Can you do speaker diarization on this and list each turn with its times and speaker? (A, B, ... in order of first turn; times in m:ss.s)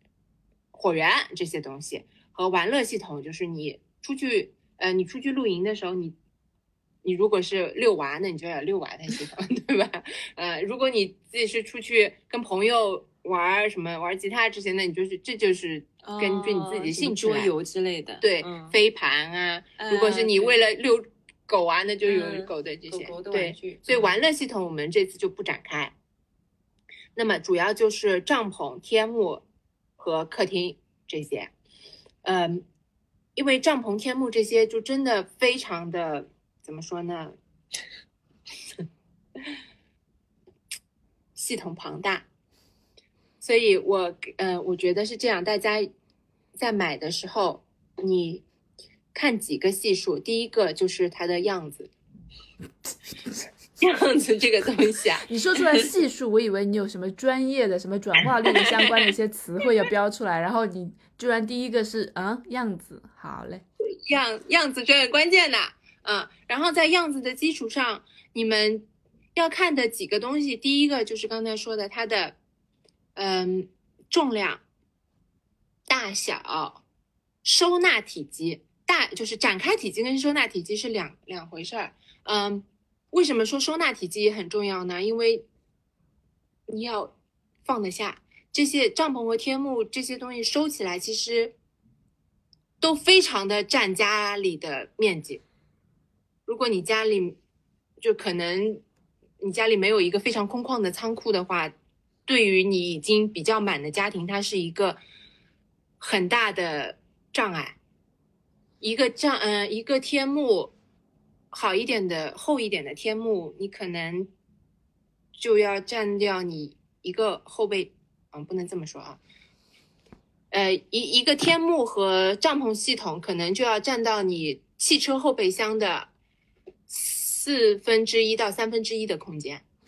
0:00.7-0:06.1 A
0:07.0-0:17.5 A
0:16.0-0:18.8 B
0:18.2-0:25.9 A
0:19.8-0:20.6 B
0:22.0-0:24.2 B
0:27.2-0:29.4 A
0:30.0-0:31.5 A
0:32.2-0:32.6 A
0:33.4-0:37.3 A
0:41.4-0:42.2 A
0:43.4-0:45.9 A
0:46.6-0:48.4 A
0:49.1-0:51.9 A
0:53.8-0:55.3 A
0:55.3-1:03.6 C
1:03.8-1:12.4 A
1:13.1-1:14.6 A
1:15.9-1:16.8 A
1:17.4-1:25.4 A
1:26.7-1:27.1 A
1:27.6-1:31.5 A
1:32.8-1:35.4 A
1:36.4-1:37.4 A
1:38.0-1:38.8 A
1:39.4-1:41.7 A
1:42.3-1:45.0 A
1:46.0-1:47.8 A
1:48.8-1:50.7 A
1:51.5-1:54.3 A
1:55.4-1:59.2 A
2:00.5-2:06.1 A
2:06.9-2:09.6 A